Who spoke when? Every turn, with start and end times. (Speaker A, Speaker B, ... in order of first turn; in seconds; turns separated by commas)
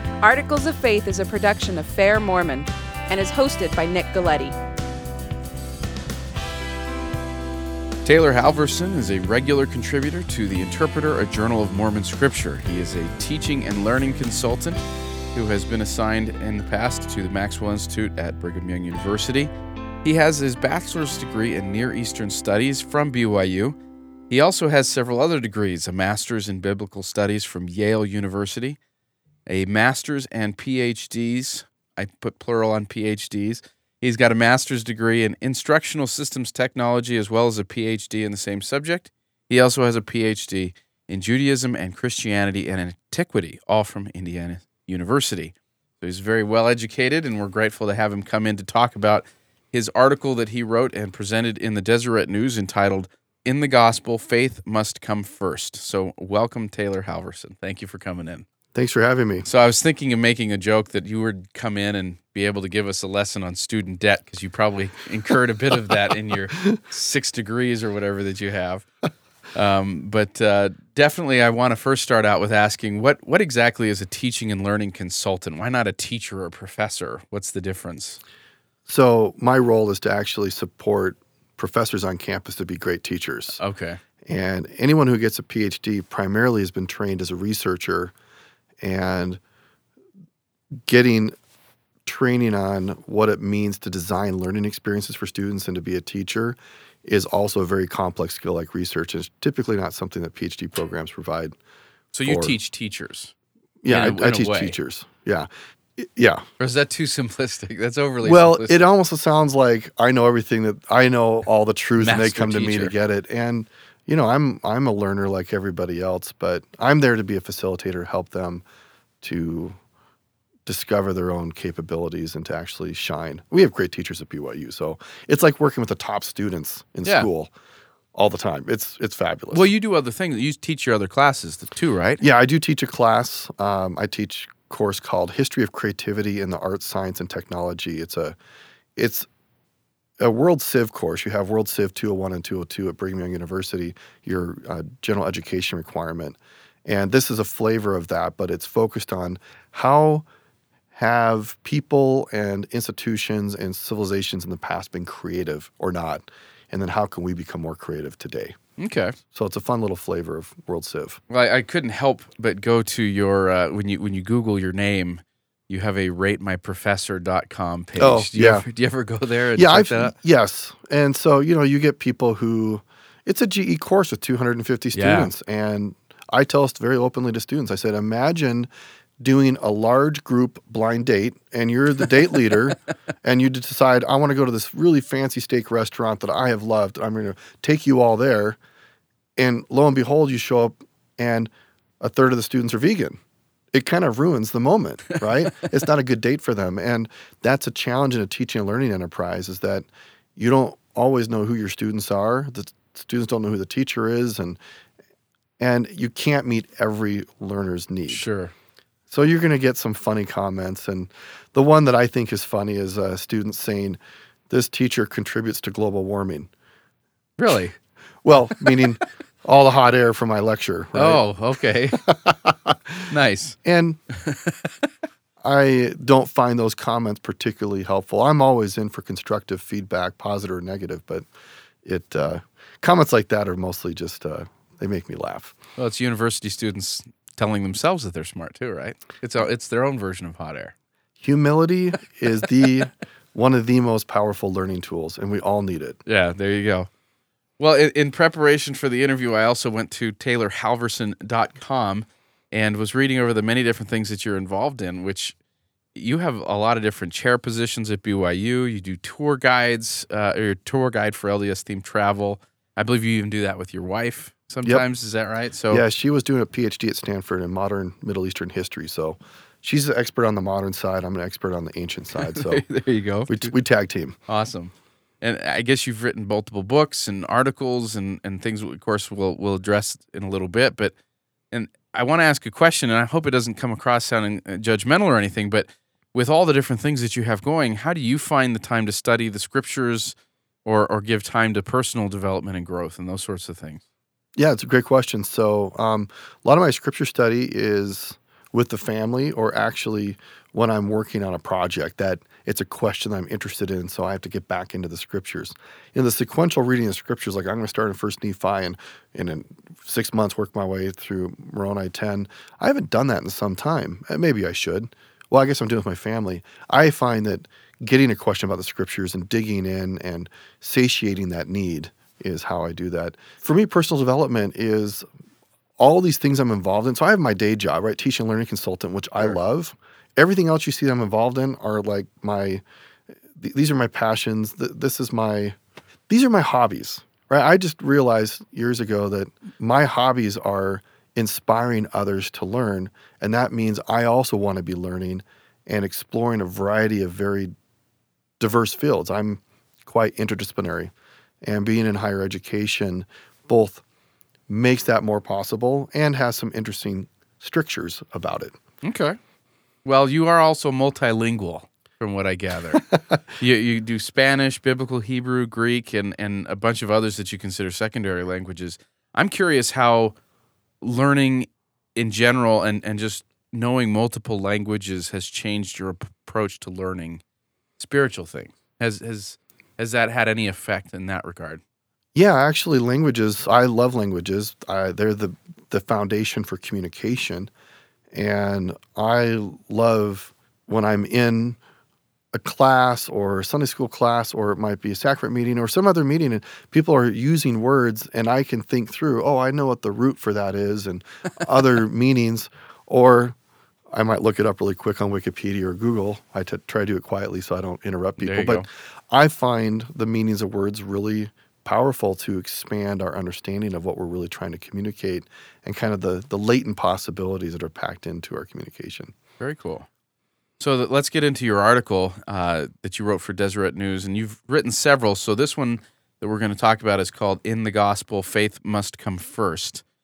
Speaker A: 0.2-4.6, Speaker B: 8.1-14.8, Speaker B: 15.3-19.5, Speaker B: 20.0-23.8, Speaker B: 24.3-28.8, Speaker B: 29.5-58.5, Speaker C: 58.8-59.5, Speaker B: 59.5-68.9, Speaker B: 69.5-78.2, Speaker C: 78.9-83.6, Speaker B: 83.6-84.0, Speaker C: 84.3-88.1, Speaker C: 88.8-89.4, Speaker C: 90.9-91.4, Speaker C: 92.0-101.6, Speaker B: 102.1-103.3, Speaker C: 102.2-102.6, Speaker C: 103.8-106.5, Speaker B: 103.9-104.8, Speaker B: 106.6-108.9, Speaker C: 108.2-118.6, Speaker B: 112.0-112.9, Speaker C: 119.2-119.8, Speaker C: 120.7-127.5, Speaker C: 128.1-129.7, Speaker B: 129.5-132.2, Speaker C: 132.2-138.4, Speaker C: 139.0-139.3, Speaker C: 140.2-150.2, Speaker C: 150.9-158.6, Speaker B: 158.8-159.2, Speaker C: 159.3-161.2, Speaker B: 161.3-170.2, Speaker C: 168.0-168.7, Speaker C: 169.6-178.7, Speaker B: 174.9-175.3, Speaker C: 179.2-188.6, Speaker C: 189.4-193.2, Speaker C: 193.7-204.6, Speaker C: 205.6-208.3, Speaker B: 208.1-208.5, Speaker C: 209.1-214.0, Speaker C: 214.5-216.5, Speaker B: 217.4-217.8, Speaker C: 218.2-221.2, Speaker B: 220.9-222.1, Speaker C: 221.9-223.1, Speaker B: 223.1-223.6, Speaker C: 223.6-224.0, Speaker B: 224.1-224.8, Speaker C: 225.4-231.3, Speaker C: 231.8-235.6, Speaker B: 235.8-240.7, Speaker C: 241.2-246.0, Speaker B: 246.1-246.9, Speaker B: 247.6-255.3, Speaker B: 255.9-265.8, Speaker C: 265.7-272.6, Speaker B: 272.2-273.5, Speaker C: 273.3-274.2, Speaker B: 274.3-280.9, Speaker B: 281.5-293.8, Speaker C: 294.4-325.1, Speaker C: 325.8-332.6, Speaker C: 333.4-335.6, Speaker C: 336.1-347.5, Speaker C: 348.4-350.9, Speaker C: 351.4-353.8, Speaker C: 354.5-358.6, Speaker B: 358.8-359.2, Speaker B: 359.9-370.1, Speaker C: 362.7-363.2, Speaker B: 370.8-377.2, Speaker B: 377.8-381.6, Speaker C: 382.1-387.5, Speaker C: 388.1-391.6, Speaker C: 392.3-403.4, Speaker C: 403.9-419.1, Speaker B: 408.2-408.6, Speaker B: 419.4-419.9, Speaker B: 420.6-429.8